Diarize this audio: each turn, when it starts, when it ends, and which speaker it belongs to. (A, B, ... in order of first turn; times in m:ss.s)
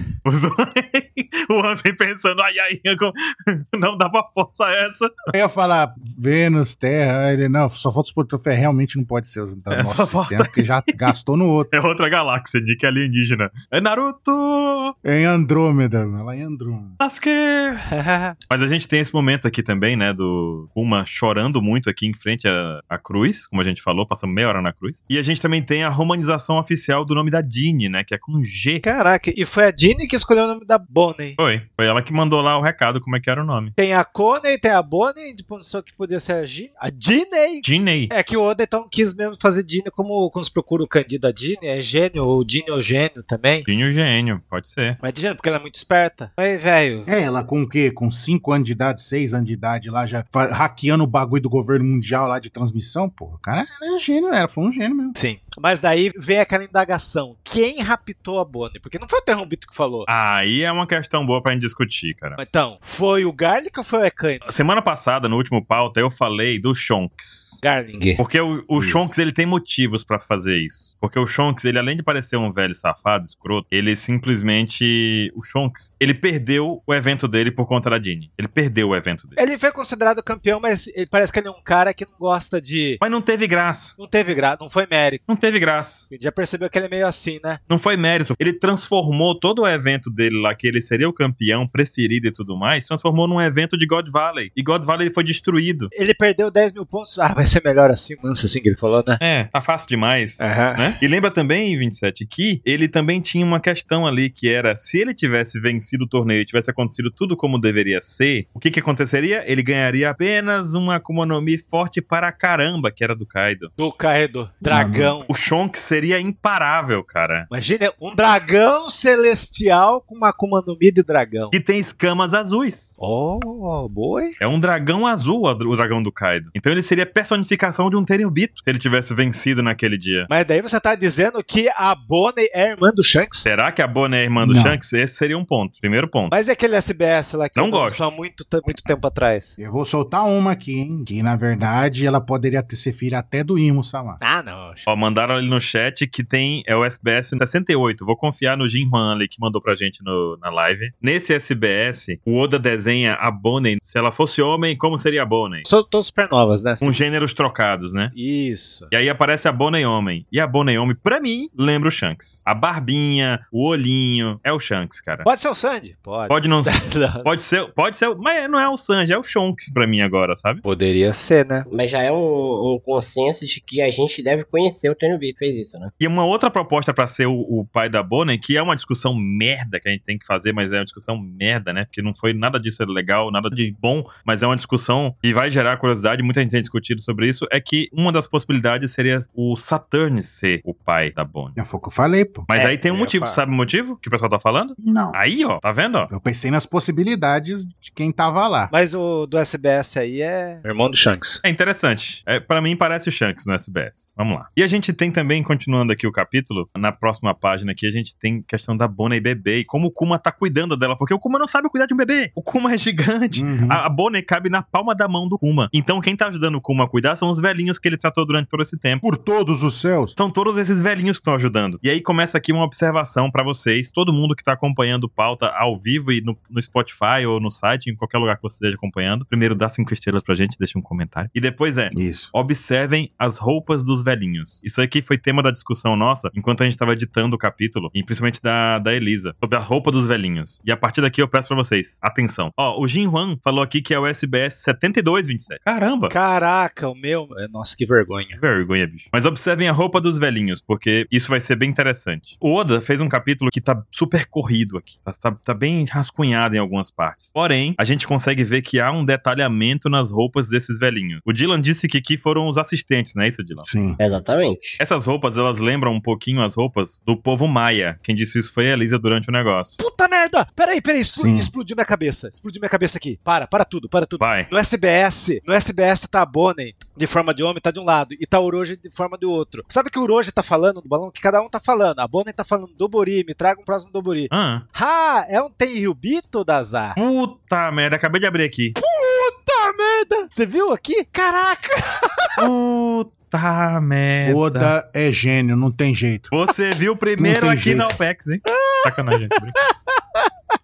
0:00.2-0:05.3 A
0:05.3-0:11.7 B
0:09.7-0:11.1 A
0:11.7-0:14.9 A
0:15.0-0:17.0 B
0:17.0-0:17.9 A
0:17.9-0:18.4 C
0:18.5-0:28.8 A
0:28.8-0:31.4 C
0:31.4-0:33.7 A
0:33.8-0:43.6 C
0:37.6-0:38.1 A
0:43.6-0:45.0 A
0:45.0-0:47.1 C
0:47.1-0:55.2 B
0:55.2-1:00.1 C
1:00.1-1:02.4 A
1:02.4-1:04.4 C
1:04.4-1:07.6 A
1:07.6-1:08.2 C
1:08.2-1:19.4 A
1:08.8-1:09.1 B
1:19.4-1:23.0 C
1:23.0-1:23.9 A
1:24.0-1:25.2 C
1:25.3-1:26.0 A
1:26.1-1:27.6 C
1:27.7-1:35.9 A
1:35.9-1:39.2 C
1:39.2-1:53.7 A
1:40.4-1:41.0 C
1:53.8-1:55.3 C
1:54.7-1:55.1 B
1:55.3-1:57.5 A
1:57.5-2:01.5 C
2:01.5-2:02.9 A
2:03.0-2:04.4 C
2:04.4-2:10.3 A
2:10.3-2:13.5 C
2:13.4-2:16.3 A
2:14.4-2:14.8 B
2:16.3-2:19.6 C
2:17.6-2:18.1 A
2:19.6-2:24.2 B
2:24.2-2:24.9 C
2:24.8-2:35.6 A
2:35.6-2:37.0 C
2:36.8-2:38.1 A
2:38.1-2:38.9 C
2:38.9-2:45.2 A
2:45.2-2:47.3 C
2:46.3-2:50.6 A
2:50.6-2:51.6 C
2:51.7-2:55.9 D
2:56.0-3:11.6 A
3:11.6-3:12.5 B
3:12.5-3:16.1 A
3:12.5-3:13.4 C
3:14.8-3:15.2 B
3:16.1-3:18.7 B
3:18.7-3:21.4 C
3:21.4-3:39.0 A
3:33.3-3:33.8 B
3:39.0-3:40.2 B
3:40.2-4:06.1 A
3:51.9-3:52.3 B
4:06.1-4:08.4 C
4:08.4-4:23.7 A
4:23.6-4:24.0 B
4:24.0-4:24.8 D
4:24.8-4:29.8 A
4:29.8-4:47.0 C
4:31.0-4:31.5 B
4:34.2-4:34.5 A
4:44.3-4:44.6 A
4:47.0-4:48.8 A
4:48.8-4:52.4 C
4:52.4-4:54.7 A
4:54.2-4:56.3 B
4:56.3-4:59.6 A
4:57.2-4:58.0 B
4:58.5-5:00.3 C